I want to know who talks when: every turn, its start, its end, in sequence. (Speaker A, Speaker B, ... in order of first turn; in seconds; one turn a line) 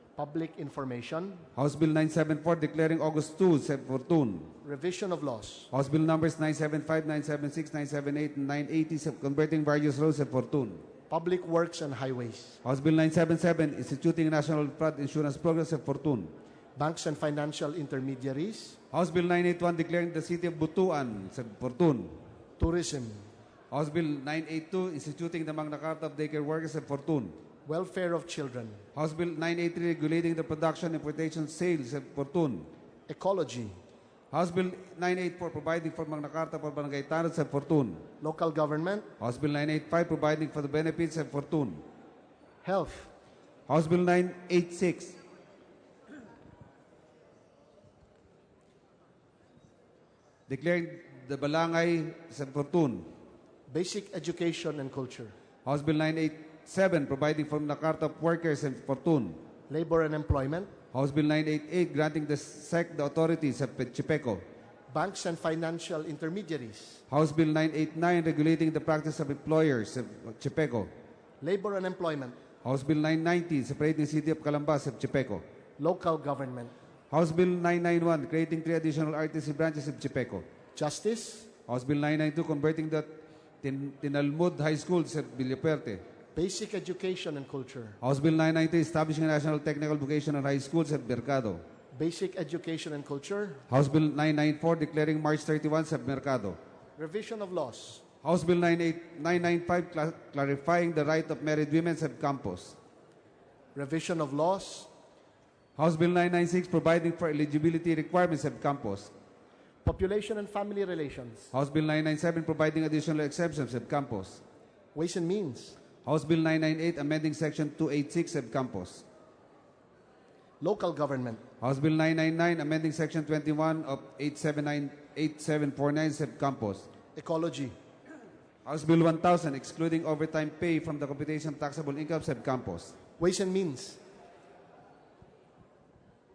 Speaker A: 0.1-1.5
Speaker B: 1.6-4.5
Speaker A: 4.6-5.7
Speaker B: 5.7-10.8
Speaker A: 11.1-12.6
Speaker B: 12.6-16.3
Speaker A: 16.8-18.8
Speaker B: 18.9-22.2
Speaker A: 22.6-23.3
Speaker B: 23.7-27.4
Speaker A: 27.6-28.8
Speaker B: 28.9-32.7
Speaker A: 33.1-33.8
Speaker B: 34.3-38.0
Speaker A: 38.2-39.1
Speaker B: 39.2-41.8
Speaker A: 42.6-43.1
Speaker B: 43.7-45.2
Speaker B: 50.5-53.1
Speaker A: 53.7-55.3
Speaker B: 55.6-59.4
Speaker A: 59.7-60.7
Speaker B: 60.9-64.4
Speaker A: 64.9-67.0
Speaker B: 67.1-70.9
Speaker A: 71.4-72.4
Speaker B: 72.6-75.4
Speaker A: 75.8-76.7
Speaker B: 77.1-80.4
Speaker A: 80.7-81.5
Speaker B: 81.7-83.1
Speaker B: 83.6-86.0
Speaker A: 86.3-88.0
Speaker B: 88.0-91.6
Speaker A: 91.9-93.6
Speaker B: 93.7-96.6
Speaker A: 97.0-98.0
Speaker B: 98.2-102.8
Speaker A: 103.7-104.9
Speaker B: 105.8-109.1
Speaker A: 109.8-111.5
Speaker B: 111.5-114.4
Speaker A: 114.9-115.8
Speaker B: 116.0-119.0
Speaker A: 120.6-121.4
Speaker B: 121.6-126.9
Speaker A: 127.2-127.8
Speaker B: 128.6-132.9
Speaker A: 133.2-134.0